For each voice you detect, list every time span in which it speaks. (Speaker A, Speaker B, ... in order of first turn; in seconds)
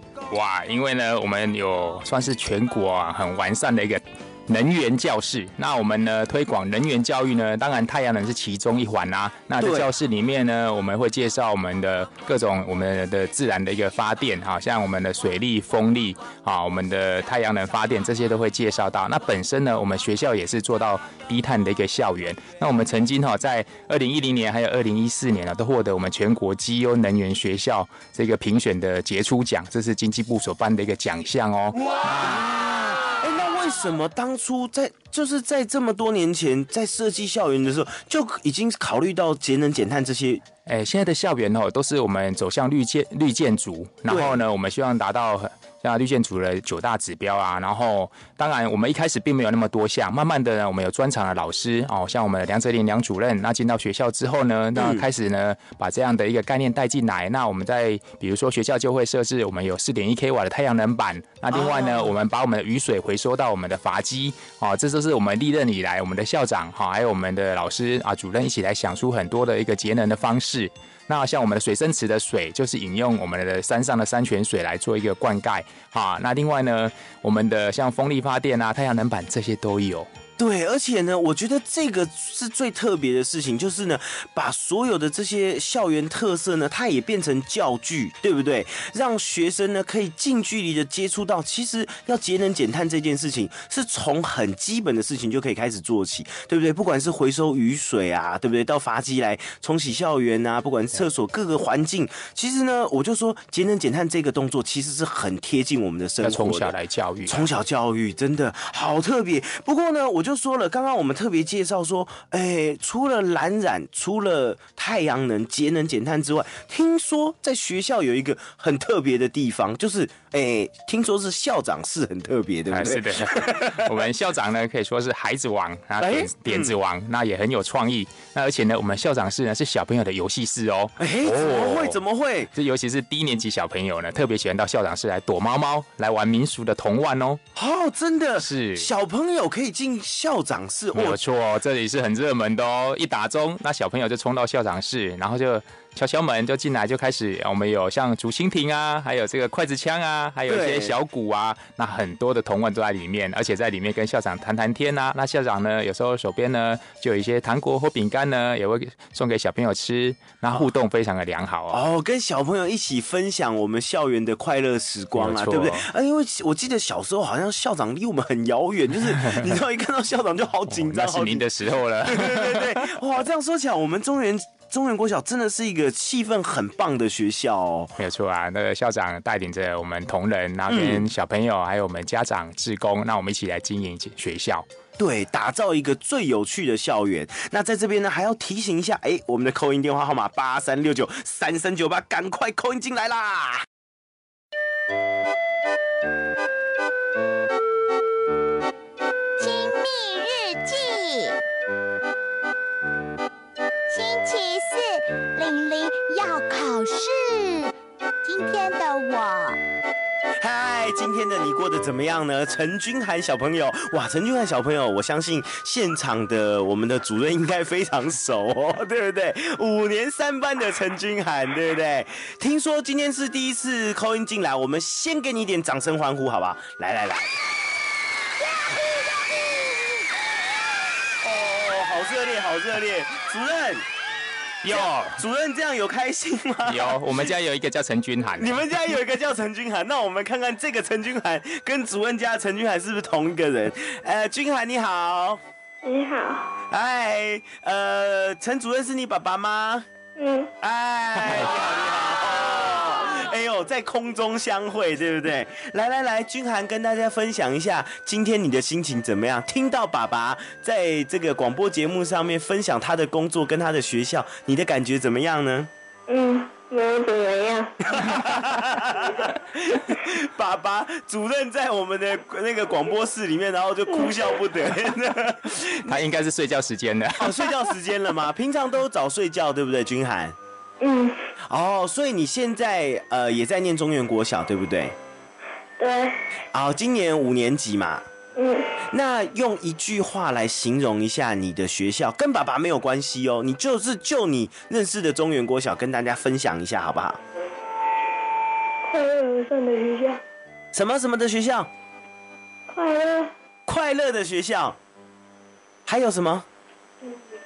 Speaker A: 0.3-32.4, 40.7-80.1, 106.2-107.5, 122.7-132.0, 132.5-137.4, 138.4-138.9, 140.9-161.8, 165.2-165.9, 169.2-169.4, 170.7-172.8, 178.0-184.7, 234.6-235.2, 236.7-238.7, 275.9-277.5
Speaker B: 9.6-9.9, 31.8-40.4, 44.1-44.4, 54.8-55.1, 61.5-62.1, 80.4-106.7, 107.3-123.9, 126.0-126.8, 131.0-132.5, 137.6-141.2, 150.5-151.0, 161.7-177.9, 180.7-181.1, 185.0-193.7, 210.4-227.4, 231.2-233.9, 234.7-237.3, 238.4-245.4, 246.7-249.9, 250.6-265.7, 267.9-276.1, 277.2-280.4, 281.5-284.9, 286.5-288.0, 288.9-297.2, 300.7-301.7, 303.7-304.8, 305.9-306.5
Speaker C: 199.4-201.4, 203.9-209.6
Speaker D: 245.8-246.5, 250.2-250.5, 266.1-267.7, 280.8-281.1, 285.8-286.1, 288.4-288.6, 298.9-300.2, 302.7-303.3